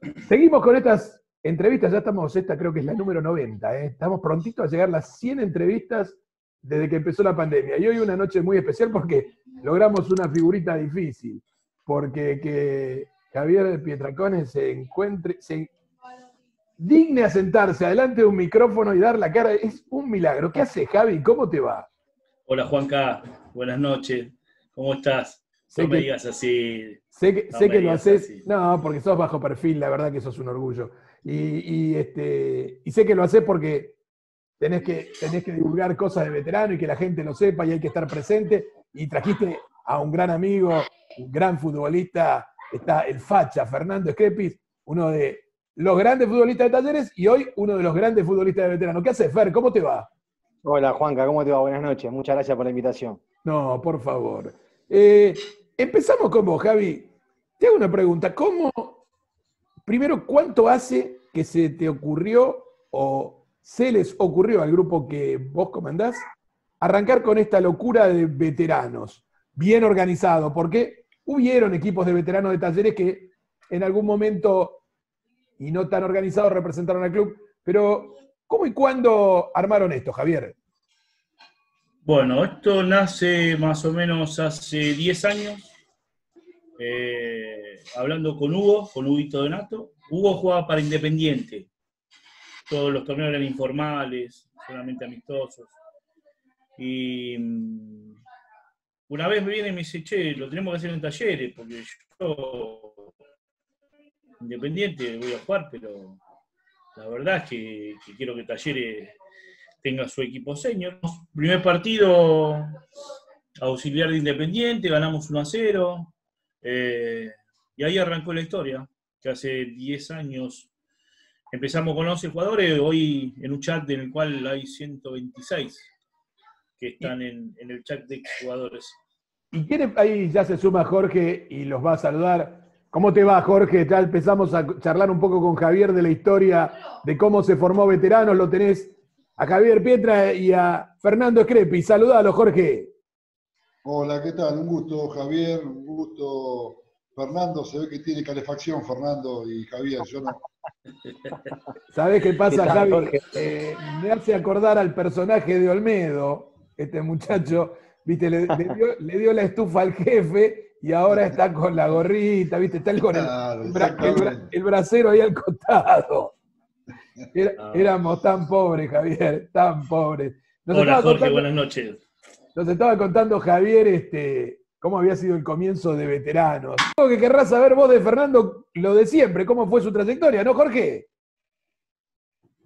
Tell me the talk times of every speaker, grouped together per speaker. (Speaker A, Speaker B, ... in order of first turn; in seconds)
Speaker A: 0.2-15.7, 16.8-21.9, 25.7-26.1, 27.1-34.0, 34.6-50.1, 53.5-59.0, 59.9-66.2, 66.8-74.8, 75.6-80.6, 129.5-142.9, 151.9-166.3, 167.3-171.5, 172.6-181.1
Speaker B: 22.5-27.0, 27.5-28.5, 82.0-85.7, 86.8-91.7, 92.7-95.7, 96.8-98.2, 99.1-103.1, 104.4-106.2, 106.9-109.1, 109.8-112.8, 113.6-120.7, 121.5-125.9, 126.8-129.0, 167.6-167.9, 170.7-172.0
Speaker C: 50.6-53.2, 152.5-153.2, 158.5-158.8
Speaker D: 143.8-150.4, 163.1-164.5